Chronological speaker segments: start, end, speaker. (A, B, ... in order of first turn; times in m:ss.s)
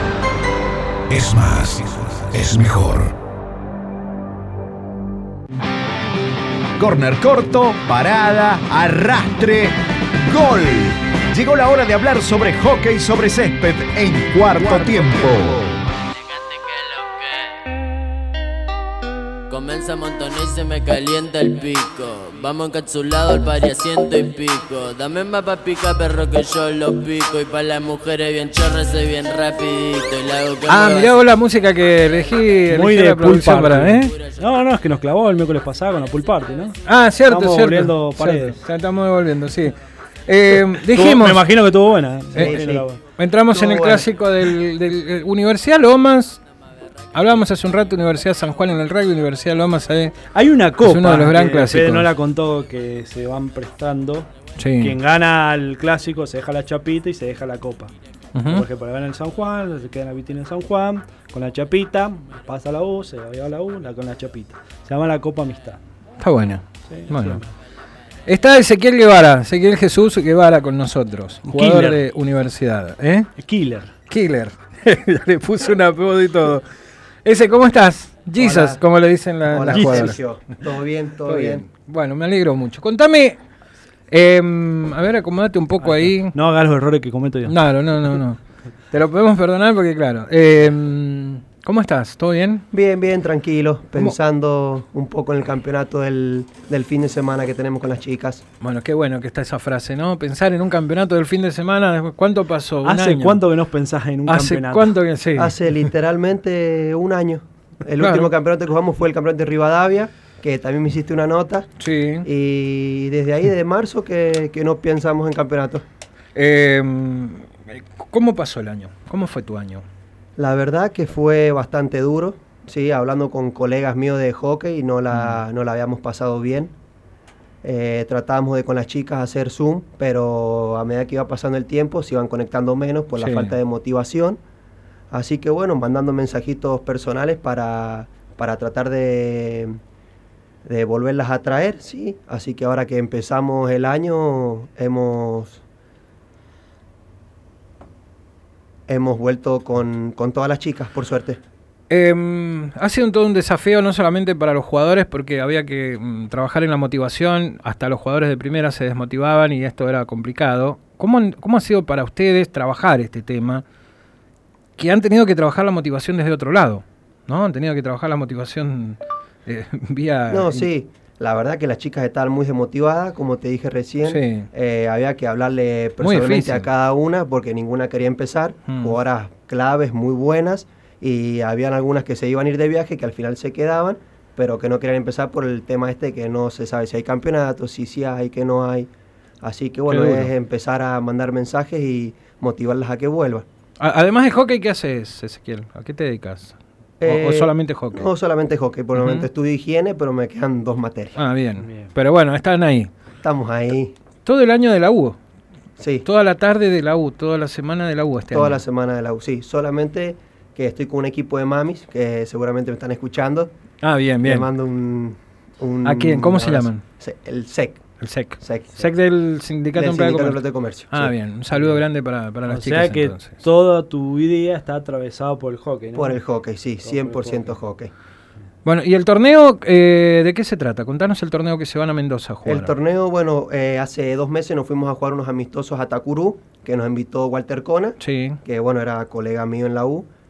0:01.1-0:03.2 A
0:06.8-0:15.8 A
0:16.6-0:17.3 B
0:19.5-0:31.3 B
0:30.7-0:34.2 C
0:32.7-0:38.6 D
0:34.1-0:34.5 B
0:36.8-0:41.4 C
0:40.5-0:43.0 D
0:42.3-0:42.6 C
0:42.3-0:42.8 E
0:43.2-0:46.4 C
0:43.5-0:44.1 E
0:47.1-0:50.2 C
0:50.3-0:57.9 D
0:50.8-0:52.1 C
0:54.6-0:55.0 C
0:58.3-0:58.6 C
0:58.5-1:05.8 D
1:06.2-1:07.4 C
1:06.8-1:07.5 D
1:08.2-1:13.3 C
1:11.5-1:12.0 D
1:13.4-1:14.0 D
1:14.1-1:16.6 C
1:17.2-1:20.2 C
1:18.4-1:18.8 E
1:19.5-1:21.7 E
1:19.6-1:20.2 D
1:21.3-1:23.4 C
1:24.1-1:26.4 C
1:25.8-1:27.6 D
1:27.4-1:28.4 C
1:28.9-1:32.6 C
1:32.7-1:38.4 E
1:38.6-1:43.5 C
1:42.8-1:45.0 D
1:44.3-1:45.8 C
1:45.4-1:51.7 E
1:48.0-1:48.3 C
1:51.8-1:52.3 C
1:52.2-1:55.8 E
1:56.4-1:59.8 C
2:00.4-2:06.7 E
2:05.1-2:05.4 C
2:07.6-2:14.4 E
2:13.2-2:13.6 C
2:15.1-2:19.8 E
2:20.7-2:25.6 E
2:28.9-2:31.4 E
2:31.9-2:43.6 C
2:44.8-2:50.7 C
2:50.3-3:08.9 E
2:54.1-2:54.5 C
2:56.0-2:56.7 C
2:58.7-2:59.0 C
3:09.4-3:13.4 E
3:09.9-3:10.3 C
3:13.8-3:18.1 C
3:17.0-3:21.2 E
3:19.0-3:19.3 C
3:21.2-3:22.9 C
3:21.6-3:21.9 D
3:23.2-3:23.9 E
3:24.2-3:25.2 C
3:25.8-3:26.1 E
3:26.0-3:28.6 C
3:28.3-3:33.5 E
3:33.8-3:34.5 C
3:34.2-3:37.8 E
3:35.8-3:36.8 C
3:38.0-3:43.4 C
3:38.4-3:38.8 E
3:39.8-3:41.1 E
3:42.5-3:46.2 D
3:46.0-3:47.9 E
3:46.8-3:47.6 D
3:48.6-3:52.7 C
3:52.4-4:00.1 E
3:58.0-3:58.4 C